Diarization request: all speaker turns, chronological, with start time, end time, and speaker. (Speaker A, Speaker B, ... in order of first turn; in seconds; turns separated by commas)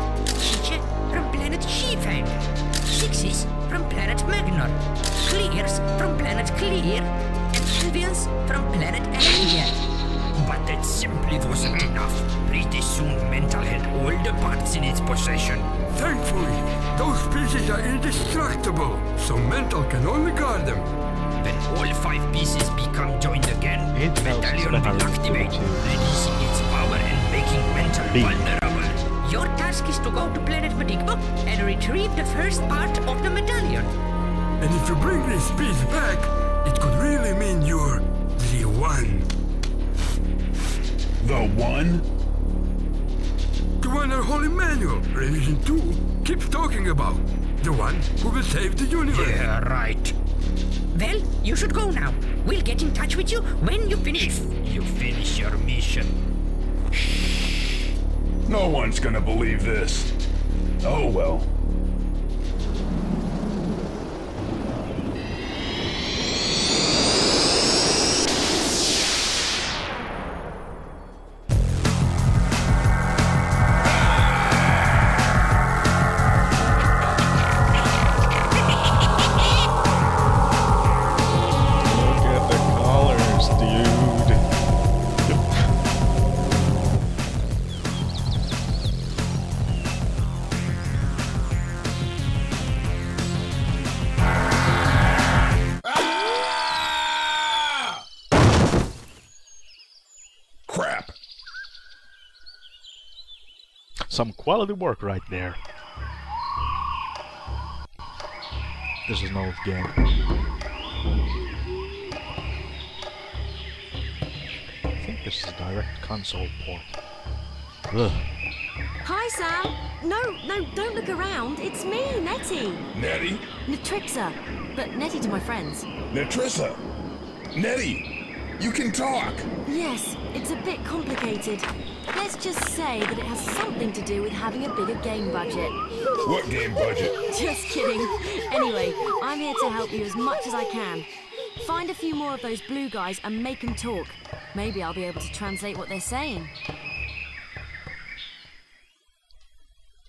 Speaker A: 0.4-9.8, Speaker B: 10.3-15.7, Speaker C: 15.9-20.9, Speaker B: 21.4-29.1, Speaker D: 23.9-25.9, Speaker D: 28.1-28.5, Speaker A: 29.2-33.9, Speaker C: 34.6-39.3, Speaker E: 41.2-42.0, Speaker C: 43.8-49.4, Speaker B: 49.1-50.1, Speaker A: 50.9-54.5, Speaker B: 54.2-56.1, Speaker E: 58.5-60.1, Speaker E: 60.8-61.5, Speaker D: 81.8-84.4, Speaker E: 95.9-96.1, Speaker E: 97.3-97.8, Speaker E: 100.7-101.2, Speaker D: 104.1-105.6, Speaker D: 109.0-110.0, Speaker D: 114.9-117.0, Speaker D: 117.9-118.4, Speaker F: 119.0-122.8, Speaker E: 122.9-123.4, Speaker F: 123.7-125.9, Speaker E: 126.1-126.8, Speaker E: 127.5-128.1, Speaker E: 128.6-129.5, Speaker F: 129.7-135.8, Speaker E: 136.2-137.2, Speaker F: 137.3-146.5